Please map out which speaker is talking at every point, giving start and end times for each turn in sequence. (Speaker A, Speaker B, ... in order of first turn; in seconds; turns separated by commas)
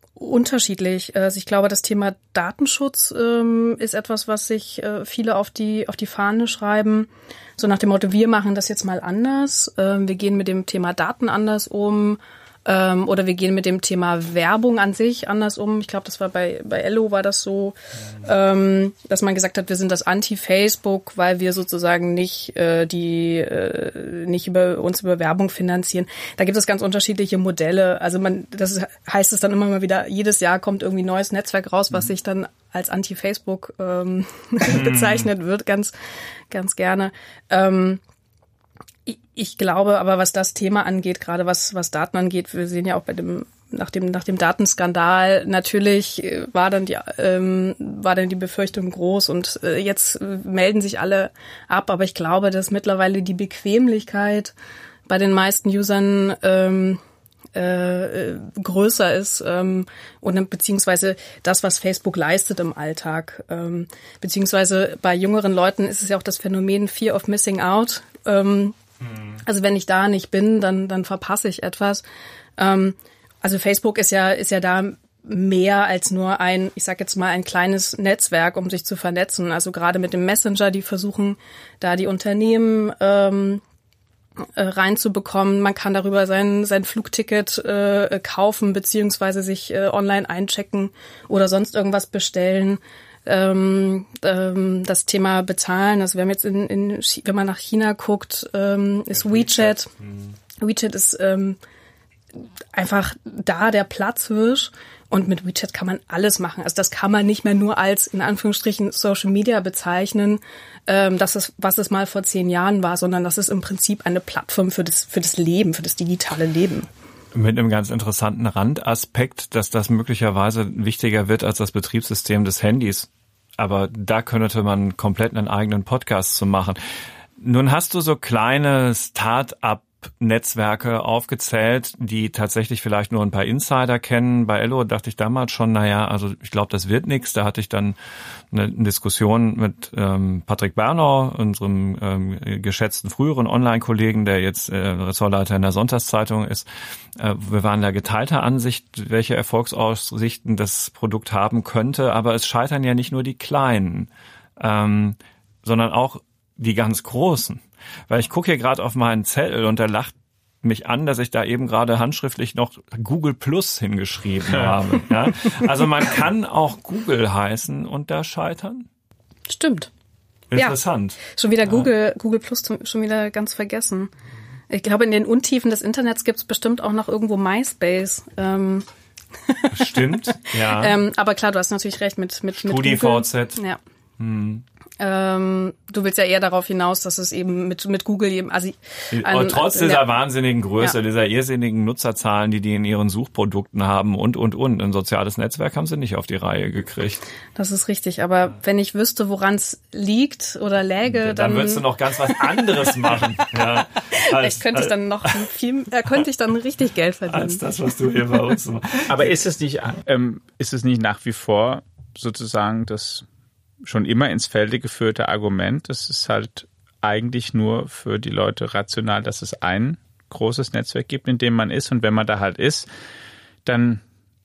Speaker A: 0.1-35.9, Speaker B: 34.7-35.3, Speaker A: 36.5-38.0, Speaker A: 39.0-54.5, Speaker A: 55.1-57.0, Speaker A: 57.5-68.8, Speaker A: 69.4-72.0, Speaker A: 72.6-83.6, Speaker A: 84.6-99.9, Speaker B: 99.1-100.3, Speaker A: 100.6-101.6, Speaker A: 102.7-116.9, Speaker B: 117.3-126.8, Speaker B: 127.4-137.9, Speaker B: 138.5-168.9, Speaker A: 169.5-169.9, Speaker B: 170.5-171.9, Speaker A: 170.5-174.1, Speaker A: 174.7-178.8, Speaker A: 179.5-183.8, Speaker B: 179.7-181.0, Speaker B: 182.6-183.6, Speaker B: 184.2-184.6, Speaker A: 185.0-190.1, Speaker B: 189.1-197.2, Speaker A: 197.6-203.2, Speaker B: 201.1-205.4, Speaker A: 204.0-207.6, Speaker B: 207.3-209.3, Speaker C: 209.1-213.2, Speaker C: 213.8-222.9, Speaker C: 223.6-224.0